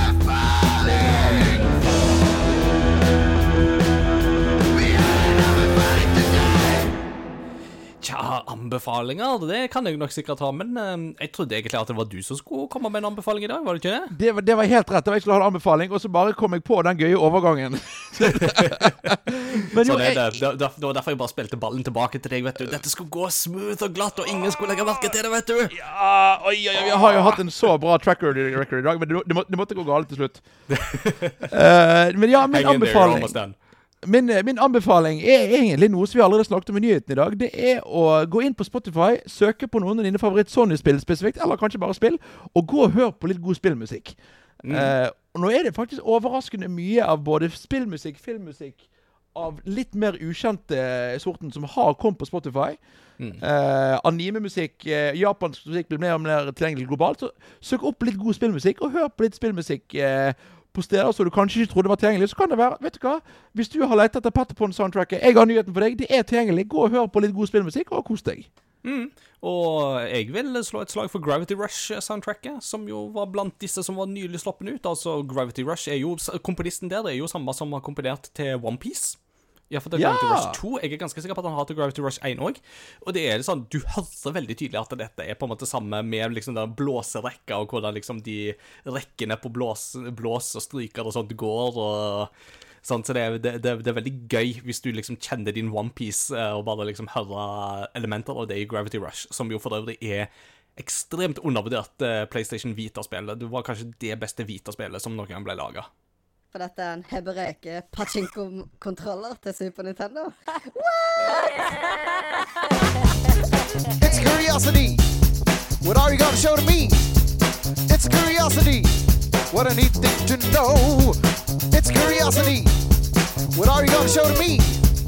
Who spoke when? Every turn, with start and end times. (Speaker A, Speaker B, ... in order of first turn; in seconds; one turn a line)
Speaker A: 8.0-14.1
Speaker B: 14.1-20.4
Speaker A: 18.2-18.9
Speaker A: 19.8-25.8
Speaker B: 25.7-30.4
Speaker A: 30.7-31.5
Speaker B: 31.5-33.4
Speaker A: 32.5-33.5
Speaker B: 34.0-52.8
Speaker A: 44.6-44.9
Speaker B: 53.4-68.5
Speaker A: 68.8-79.2
Speaker A: 79.7-92.3
Speaker B: 80.0-80.6
Speaker A: 92.8-105.9
Speaker C: 106.5-112.8
Speaker D: 114.0-115.0
Speaker D: 115.8-117.0
Speaker D: 117.9-122.7
Speaker D: 123.5-124.9